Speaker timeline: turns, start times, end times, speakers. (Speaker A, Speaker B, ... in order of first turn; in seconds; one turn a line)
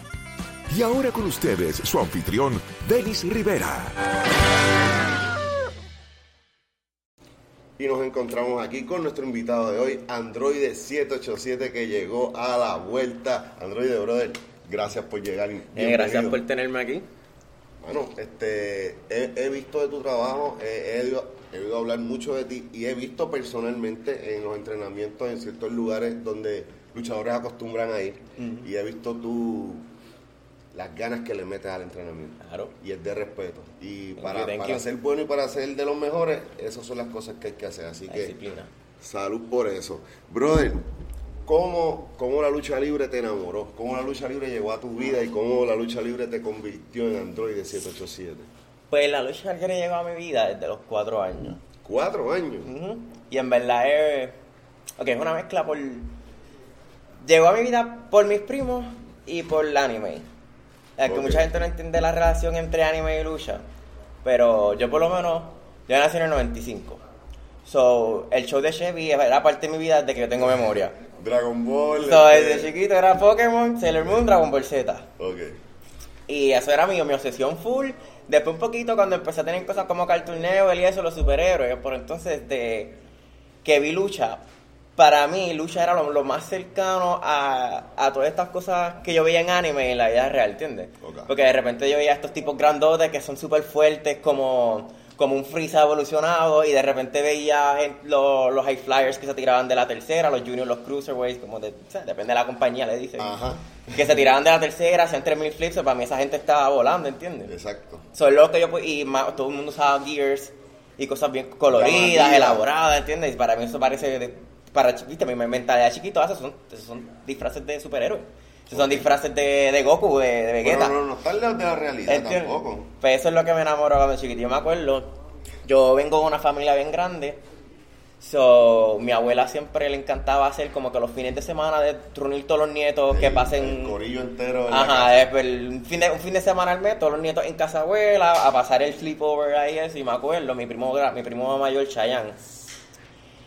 Speaker A: 0.7-4.0
Speaker B: 7.8-16.4
Speaker C: 15.7-17.1
Speaker B: 17.8-29.9
Speaker C: 28.4-28.6
Speaker B: 30.7-38.4
Speaker C: 32.4-32.7
Speaker C: 34.2-34.8
Speaker C: 38.1-38.7
Speaker B: 39.0-40.9
Speaker B: 41.4-48.5
Speaker C: 48.9-51.6
Speaker B: 51.8-52.7
Speaker C: 52.6-54.3
Speaker C: 55.0-56.1
Speaker C: 57.2-60.3
Speaker C: 61.0-63.6
Speaker B: 61.0-61.5
Speaker C: 64.2-67.0
Speaker C: 67.6-71.0
Speaker B: 71.0-72.7
Speaker C: 72.0-75.1
Speaker B: 75.2-75.6
Speaker C: 76.3-83.0
Speaker C: 83.6-84.4
Speaker C: 85.0-103.3
Speaker B: 91.0-91.3
Speaker B: 103.2-104.0
Speaker C: 103.9-107.5
Speaker B: 107.5-108.0
Speaker C: 108.1-121.0
Speaker B: 111.7-112.6
Speaker B: 118.7-119.1
Speaker B: 120.6-122.9
Speaker C: 122.0-127.4
Speaker C: 128.2-133.9
Speaker B: 133.1-135.3
Speaker C: 134.7-142.4